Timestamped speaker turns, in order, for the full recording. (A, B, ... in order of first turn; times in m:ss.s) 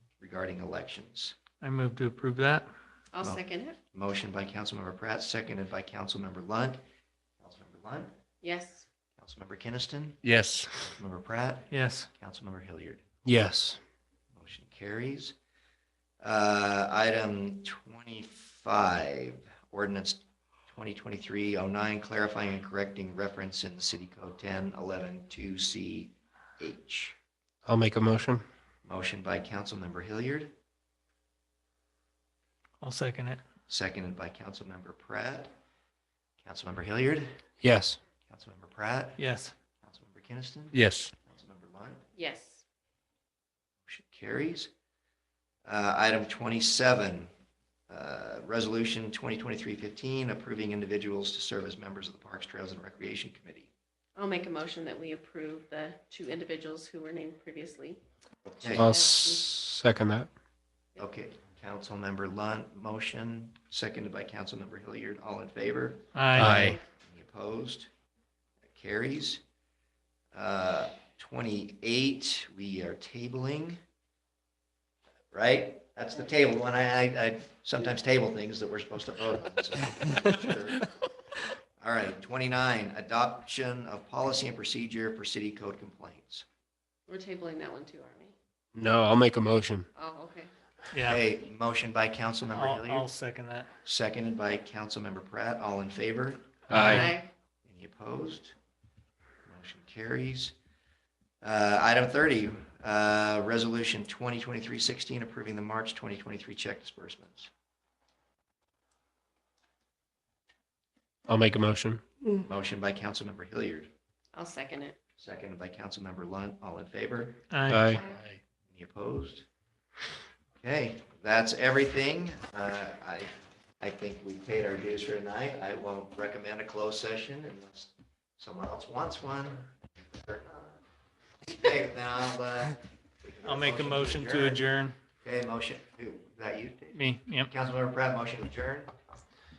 0:00.2-0:01.4 A
0:01.6-0:02.7 B
0:03.1-0:03.8 C
0:03.2-0:06.8 A
0:07.4-0:08.1 A
0:08.4-0:08.8 C
0:09.2-0:13.0 A
0:11.7-0:12.1 B
0:13.2-0:13.8 D
0:14.3-0:15.3 A
0:16.2-0:27.2 A
0:27.6-0:28.4 D
0:28.8-0:30.5 A
0:32.8-0:33.4 B
0:33.7-0:35.5 A
0:36.4-0:37.4 A
0:37.6-0:38.0 D
0:38.3-0:39.2 A
0:39.2-0:39.5 B
0:39.8-0:42.0 A
0:40.7-0:41.0 D
0:42.2-0:42.6 C
0:43.8-0:44.7 A
0:45.6-0:47.3 A
0:47.9-0:53.7 A
0:54.2-0:58.0 C
0:58.4-0:58.9 A
0:58.6-0:59.5 C
0:58.7-1:00.3 D
1:01.0-1:07.9 A
1:06.1-1:06.7 B
1:06.4-1:06.8 D
1:08.7-1:09.4 A
1:10.3-1:13.8 A
1:15.3-1:20.9 A
1:21.8-1:26.4 A
1:27.1-1:28.3 C
1:28.7-1:29.9 D
1:30.0-1:30.5 C
1:30.9-1:31.2 B
1:31.0-1:33.1 A
1:32.5-1:33.7 B
1:33.8-1:37.0 A
1:36.7-1:37.1 B
1:36.7-1:37.1 D
1:36.8-1:37.3 C
1:37.6-1:38.5 A
1:39.4-1:40.5 A
1:41.4-1:47.5 A
1:51.3-1:52.0 D
1:52.3-1:53.9 A
1:54.3-1:55.0 C
1:55.2-1:57.5 A
1:57.5-1:58.0 B
1:57.7-1:58.0 D
1:57.9-1:58.2 C
1:58.7-1:59.4 A
2:00.6-2:10.8 A
2:11.4-2:14.6 A
2:13.4-2:14.9 B
2:15.2-2:18.9 A
2:16.9-2:17.5 B